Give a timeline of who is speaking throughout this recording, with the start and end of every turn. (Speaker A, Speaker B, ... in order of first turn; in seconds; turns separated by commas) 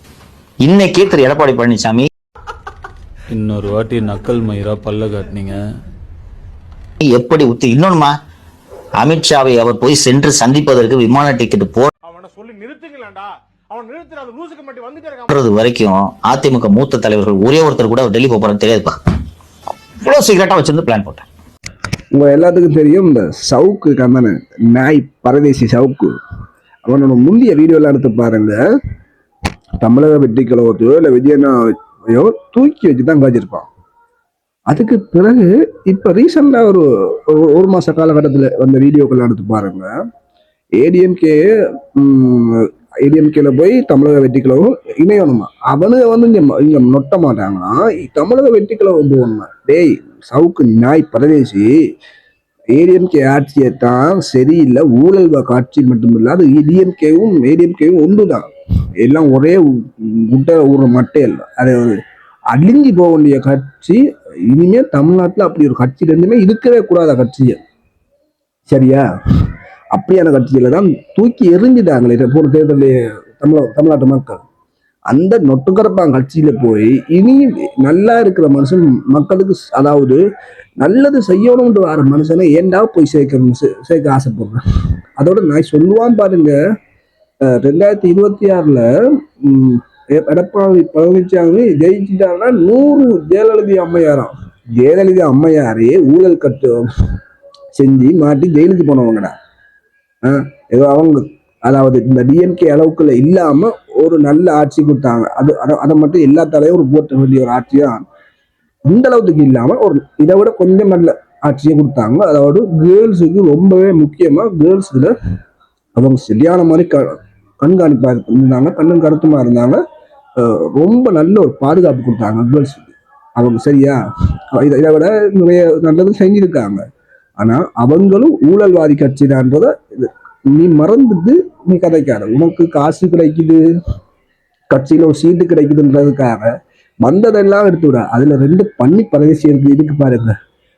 Speaker A: 0.6-2.1, Speaker B: 3.3-5.6, Speaker A: 7.0-8.1, Speaker A: 9.0-11.9, Speaker C: 12.0-15.3, Speaker A: 15.3-18.9, Speaker A: 20.0-21.3, Speaker D: 22.1-26.1, Speaker D: 26.8-28.6, Speaker D: 29.8-33.7, Speaker D: 34.7-39.9, Speaker D: 40.8-51.7, Speaker D: 52.7-58.5, Speaker D: 59.0-62.0, Speaker D: 62.5-67.6, Speaker D: 68.7-69.0, Speaker D: 69.9-74.4, Speaker D: 75.1-80.2, Speaker D: 80.8-84.6, Speaker D: 85.2-86.6, Speaker D: 87.4-88.9, Speaker D: 89.4-96.8, Speaker D: 97.7-99.3, Speaker D: 100.2-108.0, Speaker D: 108.9-115.1, Speaker D: 116.0-119.8, Speaker D: 120.4-124.0, Speaker D: 124.5-126.8, Speaker D: 127.4-133.6, Speaker D: 134.7-136.5, Speaker D: 137.0-140.3